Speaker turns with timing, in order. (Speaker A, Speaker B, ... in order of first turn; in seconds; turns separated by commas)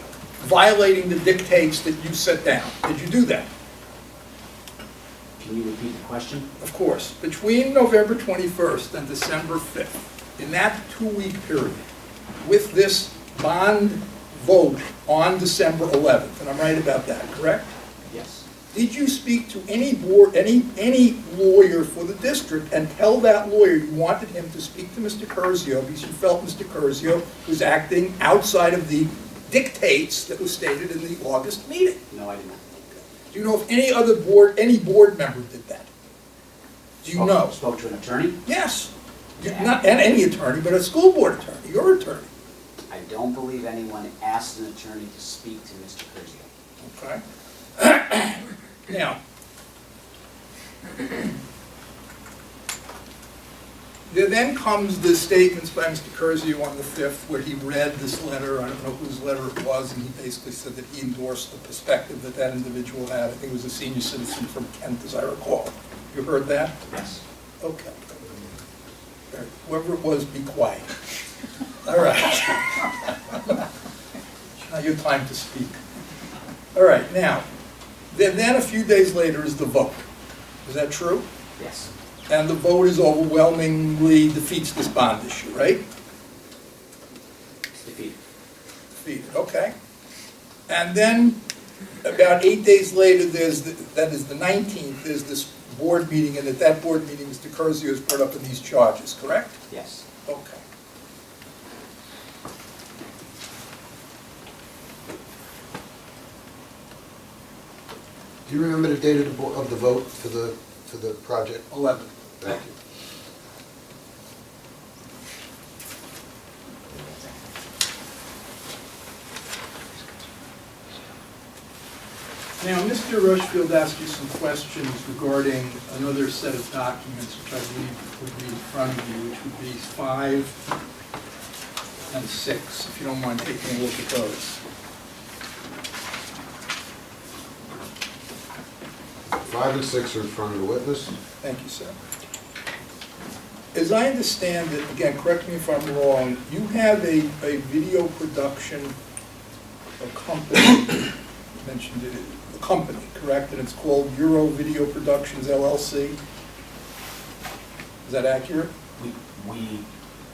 Speaker A: 0.4-3.5, Speaker B: 5.4-6.5, Speaker A: 6.6-11.8, Speaker A: 12.4-17.7, Speaker B: 18.1-18.4, Speaker A: 18.7-32.0, Speaker B: 32.1-32.6, Speaker A: 33.3-35.9, Speaker A: 37.0-37.5, Speaker B: 37.1-38.4, Speaker A: 38.4-42.3, Speaker B: 39.4-39.8, Speaker B: 42.9-46.5, Speaker A: 46.8-47.2, Speaker A: 47.8-49.2, Speaker A: 54.1-66.8, Speaker B: 66.9-67.2, Speaker A: 67.6-68.0, Speaker A: 69.3-70.9, Speaker A: 71.8-73.6, Speaker A: 74.6-75.8, Speaker A: 76.7-77.4, Speaker A: 78.1-80.0, Speaker A: 80.6-81.2, Speaker B: 81.6-81.9, Speaker A: 82.3-85.8, Speaker B: 87.7-88.2, Speaker A: 89.0-89.7, Speaker A: 90.7-91.4, Speaker A: 92.0-99.6, Speaker B: 99.7-100.0, Speaker A: 100.2-100.6, Speaker C: 108.5-111.7, Speaker A: 111.7-112.6, Speaker C: 112.4-112.7, Speaker B: 116.9-117.3, Speaker A: 122.6-130.6, Speaker A: 132.1-134.6, Speaker C: 139.3-141.1, Speaker A: 141.4-141.9, Speaker A: 143.7-148.9, Speaker A: 150.0-156.2, Speaker A: 158.0-158.7, Speaker B: 159.0-159.9